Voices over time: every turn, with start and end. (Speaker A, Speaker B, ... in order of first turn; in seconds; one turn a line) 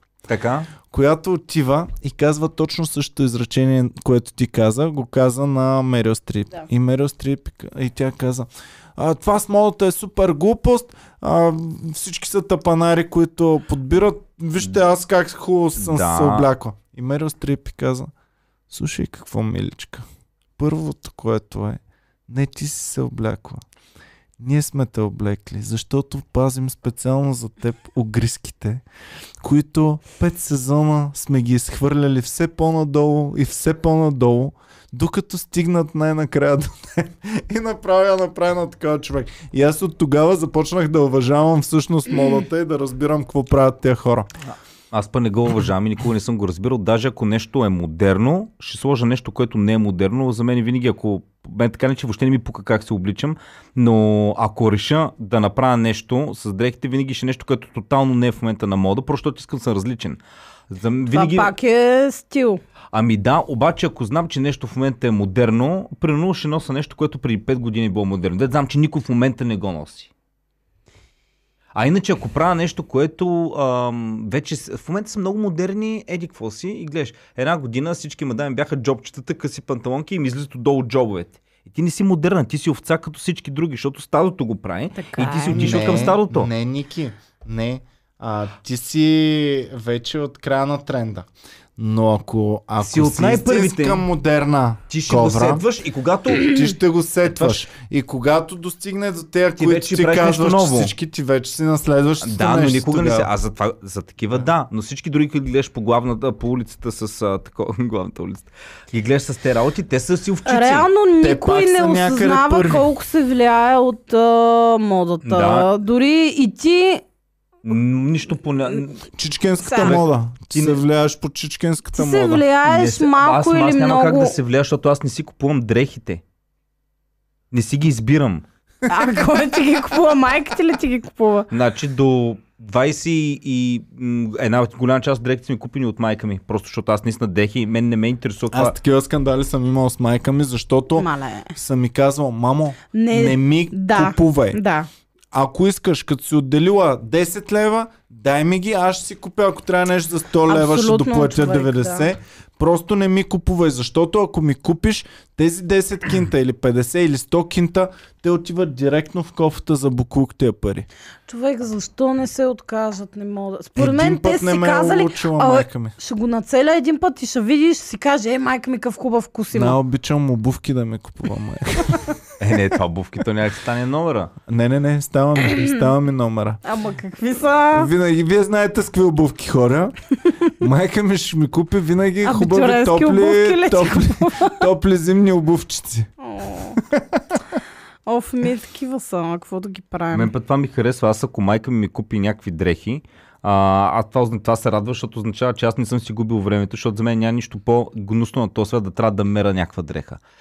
Speaker A: 0.3-0.7
Speaker B: 0.8-18.1
Speaker A: 15.8-16.5
Speaker B: 18.7-20.0
Speaker B: 20.6-23.6
Speaker B: 24.4-28.8
Speaker B: 29.4-44.3
Speaker A: 44.9-61.5
Speaker C: 61.1-62.6
Speaker A: 62.9-70.1
Speaker A: 71.7-86.5
Speaker C: 85.0-86.0
Speaker B: 85.5-95.6
Speaker A: 92.8-94.0
Speaker A: 94.9-96.7
Speaker B: 96.3-103.3
Speaker A: 97.3-97.6
Speaker A: 99.6-100.9
Speaker A: 102.2-110.9
Speaker C: 110.5-117.0
Speaker B: 111.2-112.9
Speaker A: 115.2-115.7
Speaker A: 117.6-119.0
Speaker B: 119.1-122.4
Speaker C: 119.6-119.9
Speaker A: 119.8-120.8
Speaker C: 121.9-124.3
Speaker A: 122.7-126.2
Speaker A: 127.5-128.4
Speaker C: 128.9-131.5
Speaker A: 131.5-138.8
Speaker B: 138.5-144.6
Speaker C: 141.0-141.6
Speaker C: 142.9-144.9
Speaker B: 145.3-160.9
Speaker C: 150.5-152.1
Speaker C: 161.3-169.8
Speaker B: 163.8-165.9
Speaker B: 169.5-172.2
Speaker A: 172.4-174.3
Speaker B: 174.5-176.6
Speaker C: 176.6-177.9
Speaker B: 177.7-180.0
Speaker B: 180.6-186.1
Speaker C: 182.2-184.6
Speaker C: 186.2-186.8
Speaker B: 186.8-187.4
Speaker C: 188.1-190.3
Speaker A: 190.1-200.2